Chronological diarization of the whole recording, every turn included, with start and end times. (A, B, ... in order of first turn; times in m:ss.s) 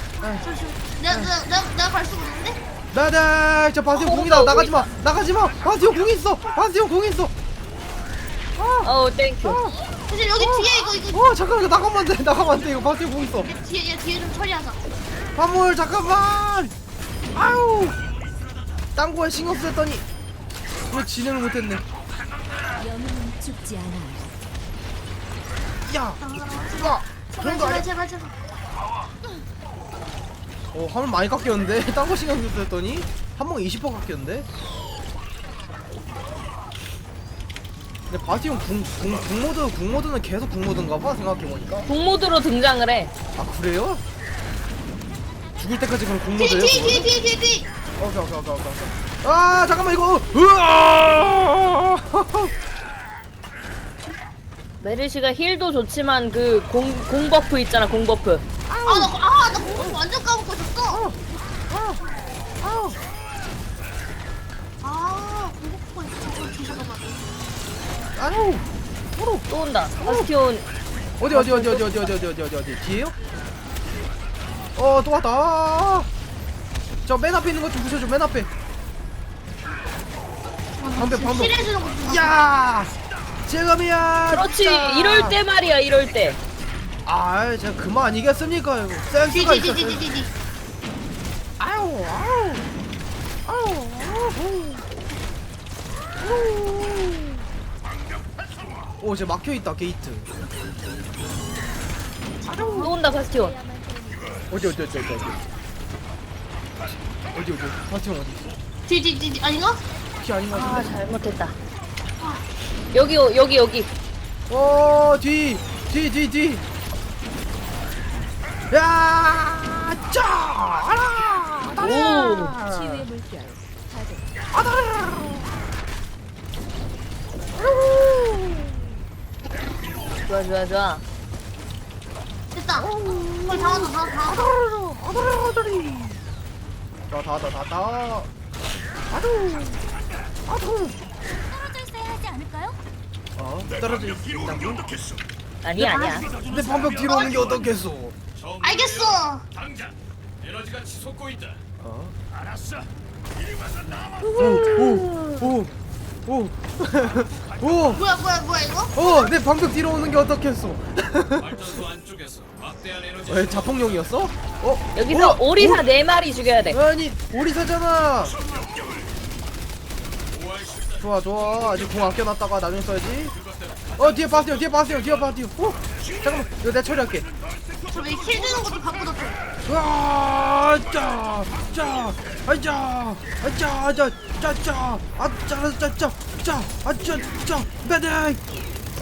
0:00.2-0:00.5 A
0:00.4-0:02.6 B
0:02.9-0:07.3 A
0:03.9-0:04.9 C
0:08.6-0:08.9 A
0:08.8-0:09.6 C
0:09.4-0:09.8 A
0:10.1-0:11.2 B
0:10.4-0:13.5 A
0:13.5-0:14.8 B
0:15.4-0:16.7 A
0:17.3-0:18.0 A
0:19.0-0:20.1 A
0:20.9-0:21.9 A
0:22.7-0:24.4 D
0:25.8-0:27.9 A
0:26.2-0:28.3 B
0:30.7-0:34.5 A
0:38.1-0:41.9 A
0:41.9-0:43.1 C
0:43.4-0:44.0 A
0:45.6-0:47.1 A
0:46.4-0:47.7 B
0:48.0-0:52.5 A
0:54.8-0:58.4 C
0:58.7-0:59.1 A
0:58.8-1:01.0 B
1:00.9-1:01.2 A
1:01.7-1:02.0 A
1:02.6-1:03.0 A
1:04.8-1:07.2 B
1:08.2-1:08.6 A
1:09.2-1:09.5 A
1:09.5-1:10.6 C
1:10.0-1:10.3 A
1:11.2-1:13.2 A
1:11.3-1:12.0 C
1:14.8-1:16.1 A
1:17.1-1:18.5 A
1:20.8-1:22.4 B
1:21.0-1:25.4 A
1:24.3-1:26.4 C
1:27.1-1:30.0 A
1:29.3-1:30.3 B
1:31.6-1:32.6 A
1:33.5-1:34.9 A
1:36.2-1:37.4 A
1:39.0-1:40.3 A
1:42.4-1:43.0 B
1:42.5-1:42.9 A
1:42.7-1:43.6 C
1:44.5-1:45.4 A
1:47.3-1:48.6 A
1:48.9-1:49.8 B
1:50.2-1:50.9 A
1:50.5-1:51.6 C
1:52.2-1:52.4 B
1:52.9-1:53.9 C
1:54.5-1:56.6 A
1:58.7-2:03.2 A
2:01.8-2:02.6 C
2:04.5-2:05.6 A
2:07.6-2:08.9 A
2:10.2-2:11.0 C
2:12.5-2:14.6 B
2:12.8-2:16.2 A
2:17.1-2:18.3 A
2:19.1-2:19.8 A
2:20.5-2:21.0 A
2:21.3-2:22.8 D
2:23.4-2:25.0 A
2:25.6-2:26.2 C
2:25.8-2:26.4 B
2:26.4-2:28.2 A
2:27.0-2:27.5 B
2:28.4-2:31.6 E
2:28.6-2:29.5 B
2:31.8-2:32.2 A
2:34.2-2:35.5 C
2:34.4-2:35.7 A
2:36.3-2:38.0 A
2:37.9-2:39.3 B
2:39.0-2:41.8 A
2:41.5-2:43.8 E
2:43.3-2:45.9 A
2:45.0-2:46.8 C
2:46.7-2:48.4 A
2:50.5-2:50.9 E
2:51.0-2:53.4 A
2:54.0-2:57.3 A
2:57.9-2:59.4 B
2:59.6-3:08.4 A